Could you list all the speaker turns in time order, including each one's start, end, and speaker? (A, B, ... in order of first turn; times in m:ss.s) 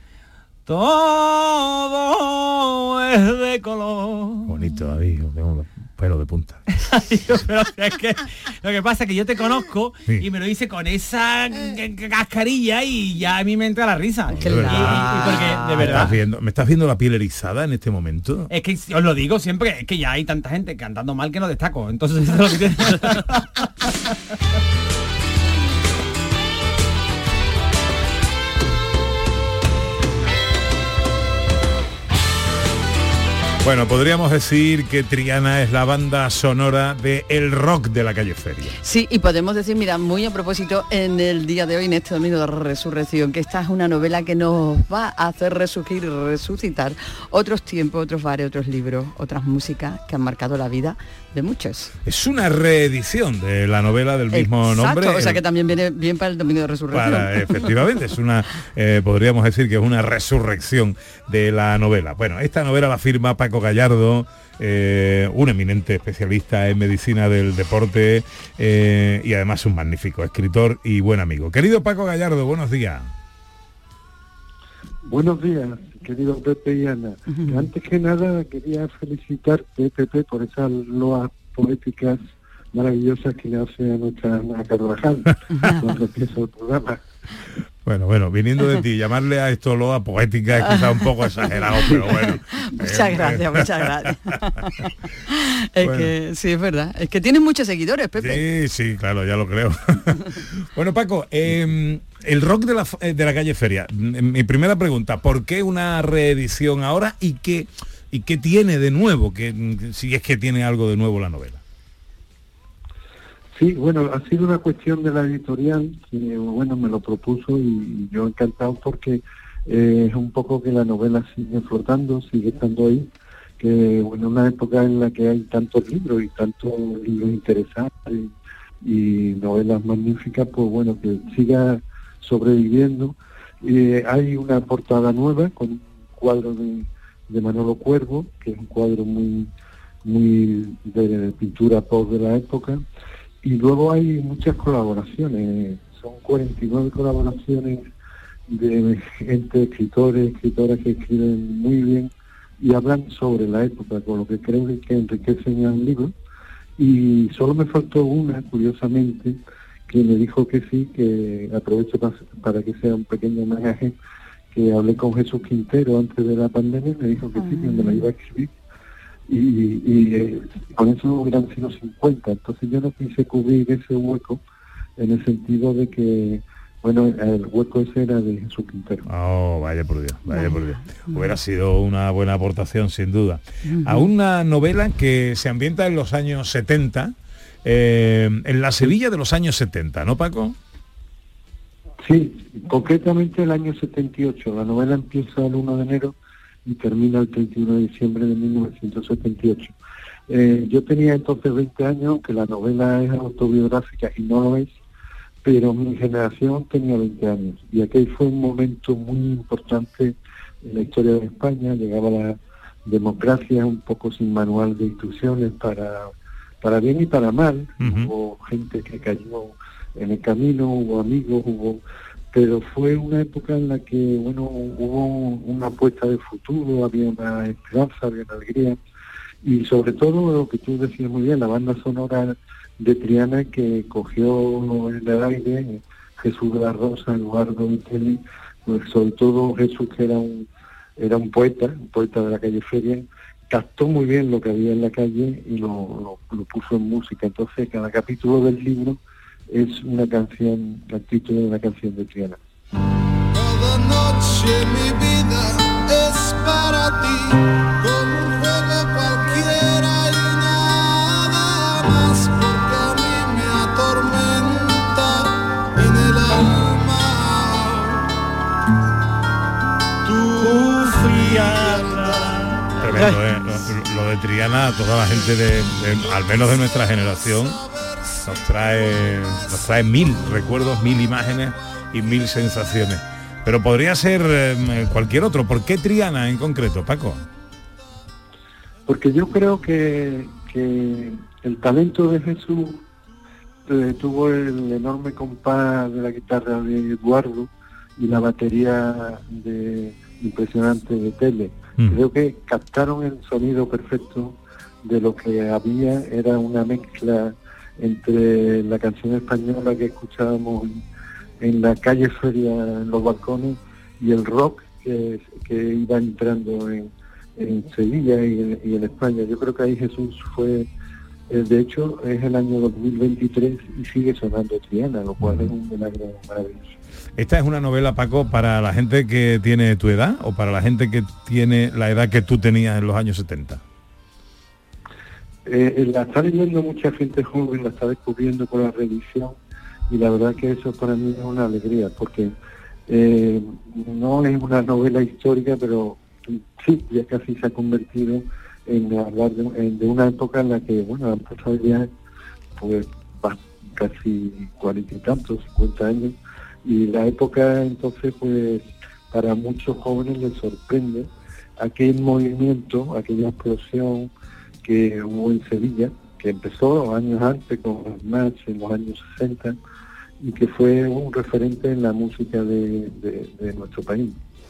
0:00.6-0:04.5 A
0:04.5-0:06.6 B
0:06.7-0:16.2 A
0:14.3-0:16.1 C
0:14.3-0:18.5 B
0:18.5-0:23.7 A
0:33.6-0:38.8 B
0:38.8-0:51.9 C
0:52.0-0:55.4 B
0:54.3-0:57.7 C
0:56.9-1:13.1 B
1:15.0-1:22.2 D
1:22.7-1:27.0 D
1:27.8-1:33.8 B
1:30.6-1:31.1 C
1:31.6-1:38.4 C
1:35.8-1:36.1 B
1:38.2-1:51.6 B
1:53.5-2:19.5 D
2:20.0-2:22.8 D
2:23.4-2:27.9 D
2:28.5-2:36.1 D
2:36.8-2:44.0 D
2:44.5-2:48.5 D
2:47.4-2:48.0 C
2:49.3-2:54.4 D
2:55.0-2:59.0 D
2:59.0-3:10.6 B
3:00.3-3:01.2 C
3:03.7-3:04.1 C
3:12.0-3:19.7 D
3:20.3-3:24.7 D
3:25.4-3:48.8 D
3:37.8-3:38.1 B
3:49.4-4:12.4 D
4:13.3-4:28.1 E
4:30.0-4:33.0 E
4:32.8-4:37.6 B
4:38.2-4:47.2 B
4:48.9-4:52.8 D
4:53.6-5:10.8 D
5:11.4-5:20.7 D
5:21.3-5:26.8 D
5:25.2-5:25.5 B
5:27.2-5:33.6 B
5:35.4-5:39.4 D
5:39.9-5:42.3 D
5:42.9-5:51.9 D
5:52.6-6:04.1 D
6:04.6-6:09.6 D
6:10.2-6:14.2 D